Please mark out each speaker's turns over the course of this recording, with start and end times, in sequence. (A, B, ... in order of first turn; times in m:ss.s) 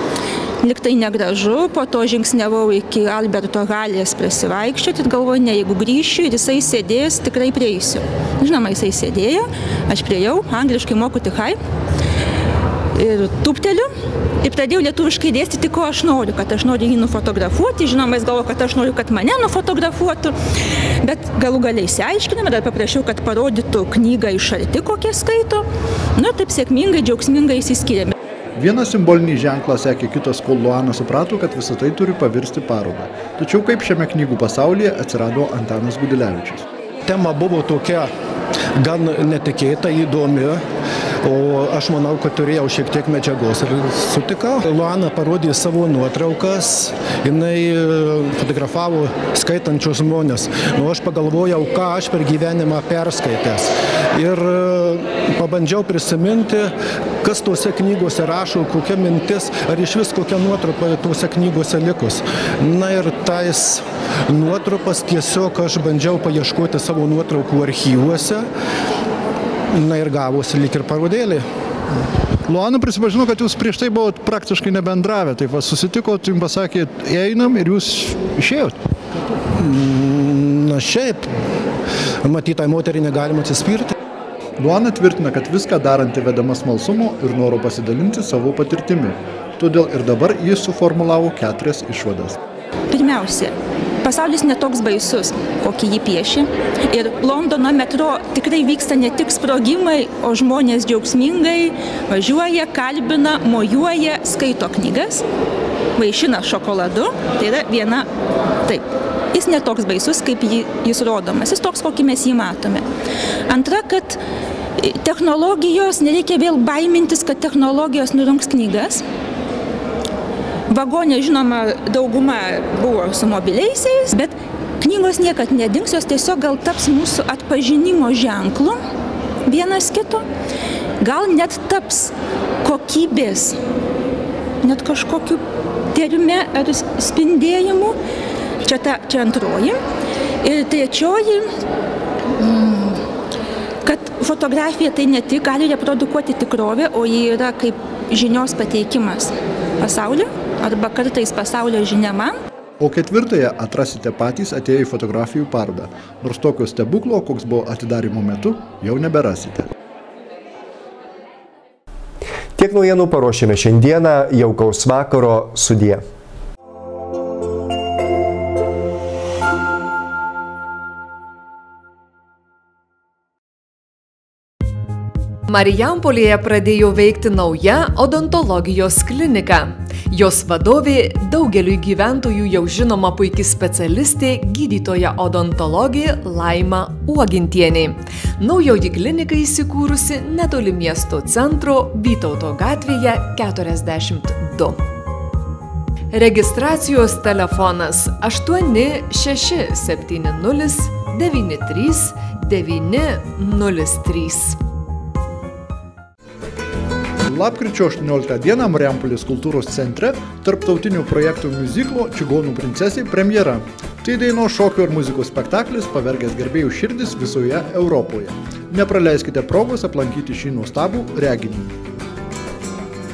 0:00.6-0:11.6 A
0:13.0-0:13.9 A
0:14.4-0:20.3 A
0:21.0-0:28.1 A
0:28.6-0:36.6 B
0:37.1-0:38.1 C
0:38.8-0:40.6 C
0:41.2-1:08.5 C
1:09.7-1:11.4 C
1:12.5-1:18.8 B
1:19.5-1:21.3 C
1:22.2-1:23.9 C
1:24.6-1:32.4 B
1:32.9-1:45.2 A
1:46.0-1:48.1 A
1:48.7-1:52.8 A
1:53.5-1:54.2 A
1:54.8-1:59.0 A
2:00.7-2:08.8 A
2:09.5-2:10.2 A
2:11.0-2:13.6 A
2:14.6-2:15.4 A
2:15.9-2:18.0 A
2:18.6-2:19.8 A
2:20.4-2:21.5 A
2:22.4-2:23.0 A
2:23.8-2:32.4 A
2:32.8-2:39.7 B
2:42.6-2:46.0 D
2:55.5-3:14.8 E
3:16.1-3:24.6 E
3:27.3-3:41.7 B